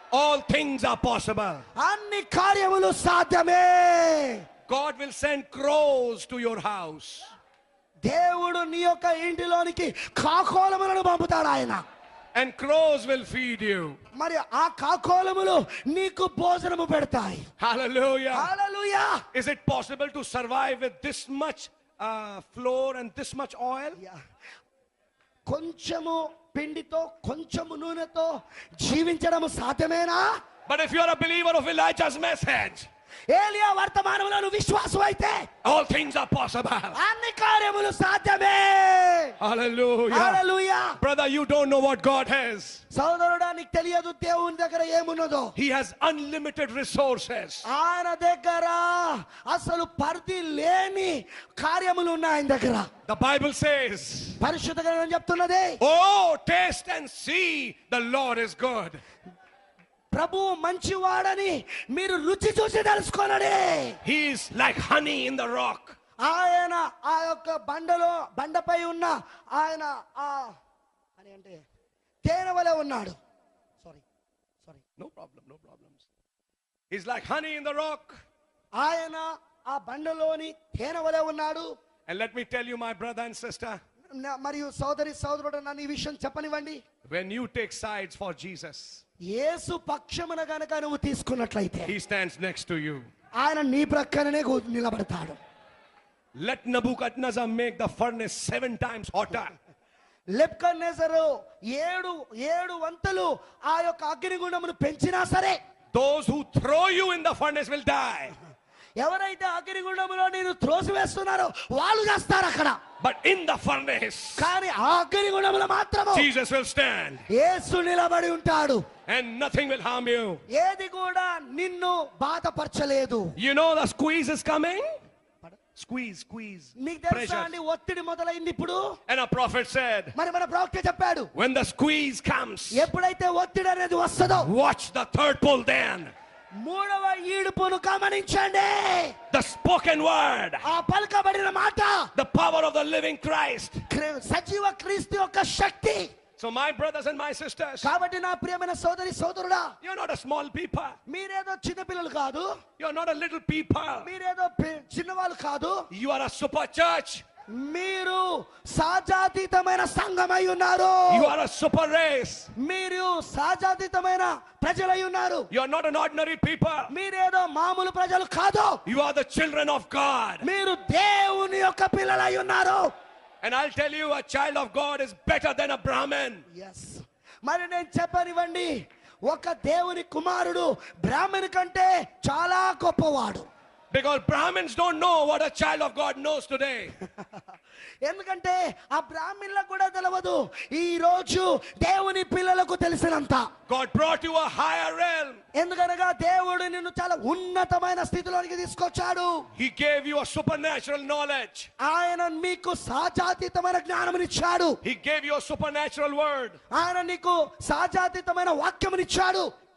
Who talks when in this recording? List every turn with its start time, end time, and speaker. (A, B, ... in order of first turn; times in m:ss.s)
0:00.1-0:01.6 A
0:01.8-0:04.4 B
0:04.7-0:07.3 A
0:08.0-0:11.8 B
0:12.3-0:14.0 A
0:14.1-0:17.5 B
0:17.6-0:18.5 A
0:18.3-0:19.2 B
0:19.3-0:24.0 A
0:25.5-0:30.3 B
0:30.7-0:32.9 A
0:33.3-0:35.5 B
0:35.6-0:37.0 A
0:36.9-0:39.4 B
0:39.4-0:40.4 A
0:40.1-0:41.0 B
0:41.0-0:42.8 A
0:42.9-0:45.5 B
0:45.6-0:47.6 A
0:47.6-0:52.9 B
0:53.1-0:54.4 A
0:54.4-0:55.8 B
0:55.8-0:59.0 A
1:00.1-1:04.0 B
1:04.0-1:06.0 A
1:06.2-1:10.5 B
1:11.2-1:11.6 B
1:12.2-1:13.2 B
1:15.0-1:16.0 A
1:16.9-1:18.2 A
1:18.8-1:21.7 B
1:22.1-1:23.8 A
1:24.2-1:26.8 B
1:27.0-1:29.0 A
1:29.3-1:31.9 B
1:31.9-1:33.1 A
1:33.4-1:35.4 B
1:36.4-1:39.5 A
1:40.3-1:45.6 B
1:45.9-1:48.4 A
1:49.0-1:52.8 B
1:53.0-1:54.5 A
1:54.4-1:56.3 B
1:56.1-1:57.2 A
1:57.3-1:58.8 B
1:59.1-2:00.4 A
2:00.5-2:03.3 B
2:03.4-2:04.9 A
2:05.8-2:07.6 A
2:06.8-2:08.8 B
2:09.1-2:10.1 A
2:10.1-2:11.3 B
2:11.3-2:12.9 A
2:12.7-2:14.5 B
2:14.4-2:16.1 A
2:16.6-2:19.1 B
2:19.3-2:20.6 A
2:20.6-2:22.1 B
2:22.1-2:23.8 A
2:23.9-2:26.1 B
2:26.4-2:27.9 A
2:27.8-2:29.7 B
2:29.8-2:31.0 A
2:31.1-2:32.6 B
2:32.8-2:34.1 A
2:34.0-2:35.9 B
2:35.9-2:37.2 A
2:37.5-2:41.3 B
2:41.1-2:42.5 A
2:42.6-2:45.5 B
2:45.5-2:46.9 A
2:46.9-2:48.8 B
2:48.8-2:50.4 A
2:50.4-2:52.9 B
2:53.4-2:56.4 A
2:56.5-2:58.7 B
2:59.3-3:03.4 B
3:03.9-3:06.9 A
3:08.1-3:13.4 B
3:13.7-3:15.4 A
3:15.5-3:19.4 B
3:19.6-3:21.7 A
3:21.8-3:24.8 B
3:24.8-3:26.6 A
3:26.7-3:29.5 B